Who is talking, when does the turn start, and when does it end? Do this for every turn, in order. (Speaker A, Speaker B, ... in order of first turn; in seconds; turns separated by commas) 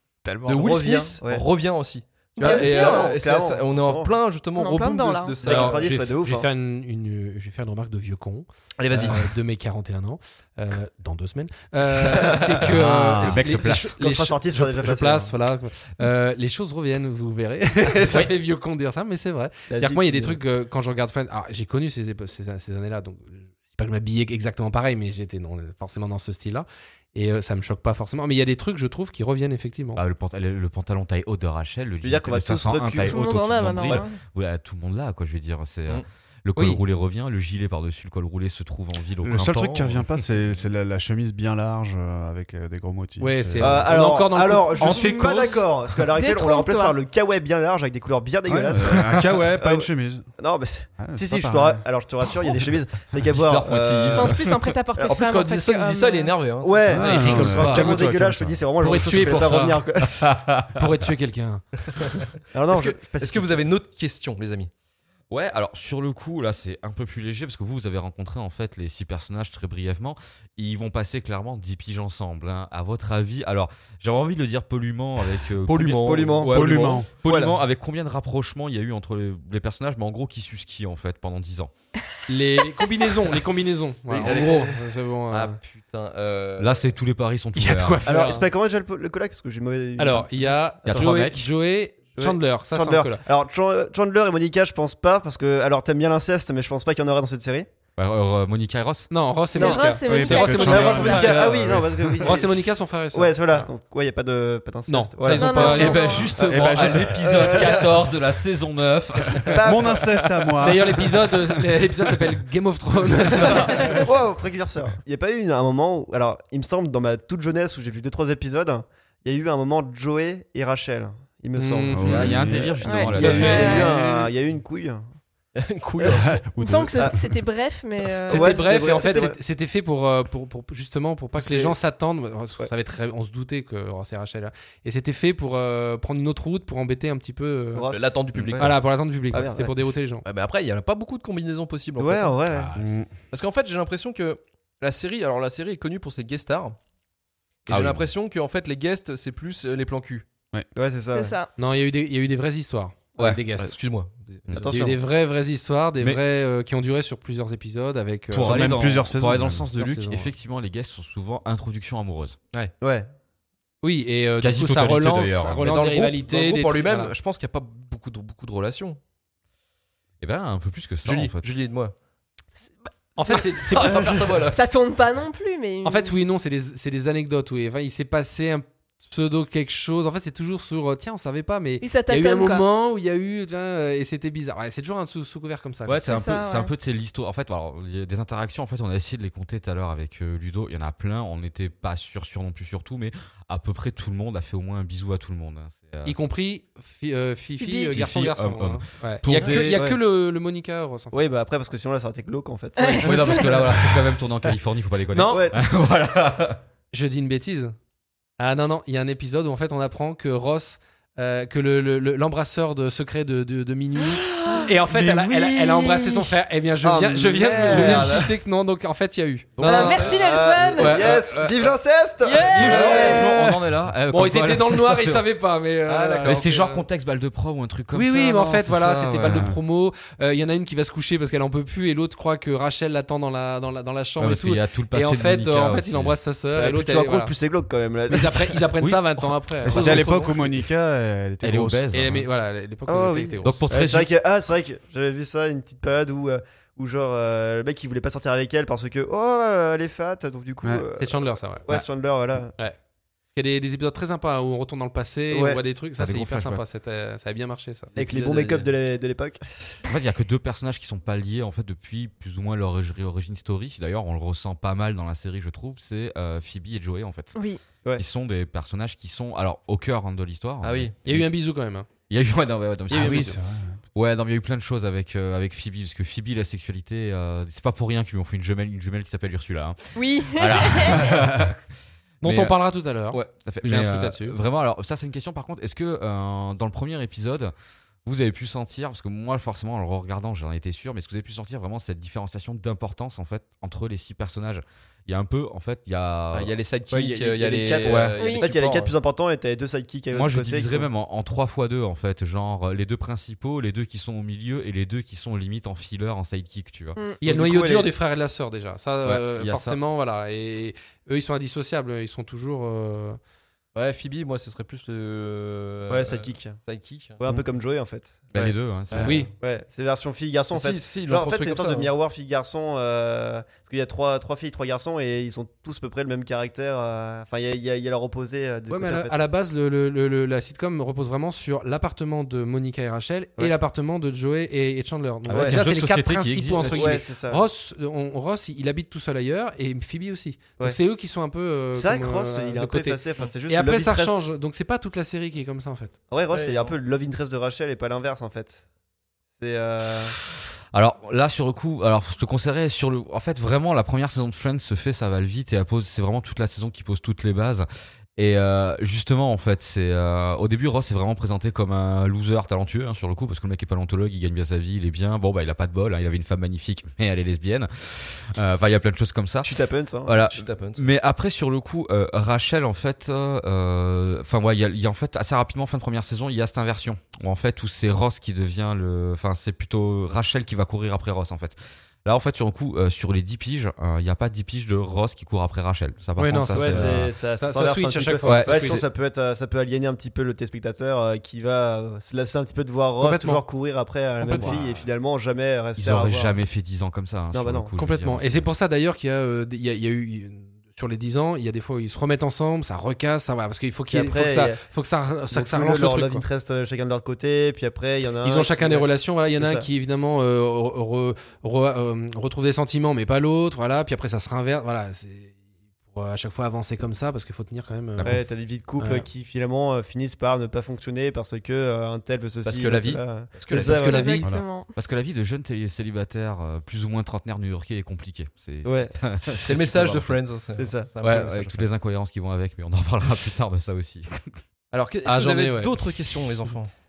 Speaker A: 0.2-0.6, Speaker B: 0.4-5.9, Speaker C: 0.6-1.4, Speaker D: 2.4-3.2, Speaker C: 2.4-4.1, Speaker D: 4.6-5.4, Speaker C: 5.4-6.5, Speaker E: 5.4-30.0, Speaker B: 8.8-9.2, Speaker A: 12.6-13.9, Speaker F: 12.8-13.2, Speaker C: 13.9-15.3, Speaker C: 19.7-20.4, Speaker A: 29.9-40.0, Speaker C: 32.0-33.2, Speaker D: 33.0-34.2, Speaker E: 36.5-36.8, Speaker F: 39.2-44.0, Speaker E: 43.2-45.6, Speaker C: 43.6-54.4, Speaker D: 46.1-47.0, Speaker F: 48.5-50.3, Speaker F: 51.0-51.9, Speaker F: 52.4-52.7, Speaker A: 53.3-54.4, Speaker D: 54.1-56.4, Speaker B: 55.0-57.3, Speaker C: 56.6-60.3, Speaker F: 56.9-59.0, Speaker E: 57.0-58.0, Speaker E: 58.8-59.8, Speaker A: 59.2-60.9, Speaker E: 60.7-61.6, Speaker B: 61.9-64.7, Speaker C: 62.5-63.6, Speaker A: 65.3-81.7, Speaker B: 75.6-76.5, Speaker C: 75.9-77.5, Speaker F: 76.5-77.1, Speaker E: 82.3-85.6, Speaker B: 84.1-84.8, Speaker B: 85.3-86.9, Speaker A: 86.6-88.0, Speaker E: 87.5-88.5, Speaker C: 88.0-91.0, Speaker E: 90.0-93.2, Speaker A: 90.9-91.5, Speaker C: 92.2-97.7, Speaker A: 98.0-99.1, Speaker E: 99.1-103.7, Speaker D: 99.5-101.5, Speaker C: 99.5-106.0, Speaker F: 100.0-102.4, Speaker E: 104.9-106.1, Speaker D: 105.3-106.4, Speaker A: 105.5-109.9, Speaker F: 105.8-107.8, Speaker C: 106.9-108.0, Speaker C: 109.5-110.2, Speaker F: 109.6-111.1, Speaker E: 110.6-114.0, Speaker A: 113.2-114.0, Speaker C: 113.9-125.0, Speaker E: 121.5-122.4, Speaker A: 122.0-124.0, Speaker F: 122.0-122.7, Speaker D: 122.8-123.9, Speaker E: 123.1-123.9, Speaker B: 125.5-126.4, Speaker C: 126.0-126.2, Speaker F: 126.2-127.4, Speaker D: 126.6-129.2, Speaker C: 128.3-129.3, Speaker E: 128.3-137.8, Speaker C: 131.4-131.7, Speaker C: 137.7-139.7, Speaker B: 137.9-138.7, Speaker E: 138.6-140.2, Speaker B: 140.2-142.4, Speaker C: 142.0-142.7, Speaker E: 142.5-143.0, Speaker F: 142.7-143.1, Speaker B: 143.3-146.8, Speaker A: 147.7-148.0, Speaker B: 147.7-150.2, Speaker C: 150.7-151.3, Speaker D: 151.1-151.5, Speaker E: 151.6-153.8, Speaker B: 153.6-154.8, Speaker A: 154.5-154.9, Speaker E: 154.6-159.0, Speaker A: 158.3-162.4, Speaker F: 158.3-159.7, Speaker E: 159.7-160.3, Speaker C: 162.8-163.1, Speaker E: 163.8-167.1, Speaker A: 164.4-165.7, Speaker B: 165.6-169.0, Speaker A: 170.2-171.4, Speaker B: 171.0-171.9, Speaker E: 173.2-174.2, Speaker B: 173.3-174.6, Speaker D: 174.4-176.2, Speaker E: 175.8-186.0, Speaker D: 181.8-182.6, Speaker A: 185.8-196.2, Speaker D: 186.0-186.7, Speaker E: 196.0-201.2, Speaker D: 197.6-197.9, Speaker A: 197.9-199.8, Speaker C: 199.4-200.0, Speaker C: 201.1-204.5, Speaker D: 202.8-203.4, Speaker A: 203.0-206.6, Speaker E: 205.1-205.4, Speaker C: 205.3-205.7, Speaker E: 206.9-207.7, Speaker E: 208.4-220.1, Speaker A: 214.3-216.3, Speaker C: 216.8-218.3, Speaker A: 217.6-218.2, Speaker B: 219.6-220.2, Speaker D: 219.6-221.0, Speaker C: 220.1-223.5, Speaker E: 220.8-221.5, Speaker B: 220.8-221.4, Speaker E: 222.2-223.5, Speaker A: 222.4-225.3, Speaker B: 222.6-223.2, Speaker E: 224.1-226.8, Speaker B: 225.9-226.4, Speaker A: 226.2-229.6, Speaker E: 227.9-237.3, Speaker A: 234.2-236.2, Speaker C: 236.5-238.6, Speaker E: 238.1-240.3, Speaker A: 238.8-240.2, Speaker F: 239.6-241.9, Speaker A: 241.4-242.3, Speaker E: 241.9-243.6, Speaker C: 242.9-252.5, Speaker A: 243.4-244.1, Speaker E: 251.0-251.7, Speaker E: 253.3-257.9, Speaker C: 255.3-255.6, Speaker A: 256.0-256.6, Speaker B: 257.9-258.7, Speaker C: 258.0-259.8, Speaker A: 259.9-267.3, Speaker D: 267.3-267.6, Speaker A: 267.9-271.3, Speaker B: 270.6-270.9, Speaker E: 271.0-271.9, Speaker A: 272.1-273.4, Speaker E: 272.9-273.4, Speaker F: 272.9-273.8, Speaker A: 273.9-281.6, Speaker D: 279.9-281.1, Speaker E: 282.2-284.4, Speaker A: 282.2-287.5, Speaker A: 288.0-296.5, Speaker B: 296.3-298.9, Speaker C: 296.9-300.9, Speaker A: 297.8-298.1, Speaker D: 298.2-298.5, Speaker A: 300.1-307.0, Speaker D: 306.9-307.2, Speaker E: 307.2-313.2, Speaker C: 307.2-307.9, Speaker A: 309.0-309.8, Speaker B: 313.7-317.2, Speaker C: 315.9-316.6, Speaker C: 317.2-318.6, Speaker A: 318.3-319.3, Speaker B: 318.9-319.2, Speaker E: 319.0-319.3, Speaker C: 319.4-329.2, Speaker B: 320.5-321.9, Speaker E: 328.7-345.9, Speaker A: 335.3-337.0, Speaker C: 335.3-335.7, Speaker C: 336.7-337.4, Speaker C: 341.7-344.2, Speaker C: 346.1-348.6, Speaker B: 346.3-346.7, Speaker C: 349.4-350.1, Speaker A: 350.7-357.6, Speaker A: 358.2-369.5, Speaker C: 369.4-370.1, Speaker A: 370.1-387.1, Speaker B: 370.3-370.8, Speaker E: 386.2-388.8, Speaker C: 386.6-396.4, Speaker A: 388.2-388.8, Speaker E: 393.0-393.4, Speaker E: 394.2-394.6, Speaker A: 394.3-394.6, Speaker A: 395.8-398.4, Speaker C: 397.3-397.7, Speaker E: 397.8-406.2, Speaker C: 403.9-404.6, Speaker C: 405.3-409.6, Speaker E: 408.2-415.4, Speaker E: 415.9-418.2, Speaker C: 418.0-424.2, Speaker E: 418.8-419.0, Speaker B: 422.4-424.1, Speaker D: 423.6-424.7, Speaker E: 423.7-424.1, Speaker A: 424.8-430.2, Speaker C: 428.6-429.3, Speaker B: 429.4-431.7, Speaker C: 430.6-430.9, Speaker A: 431.0-434.4, Speaker B: 434.7-436.7, Speaker E: 435.0-435.8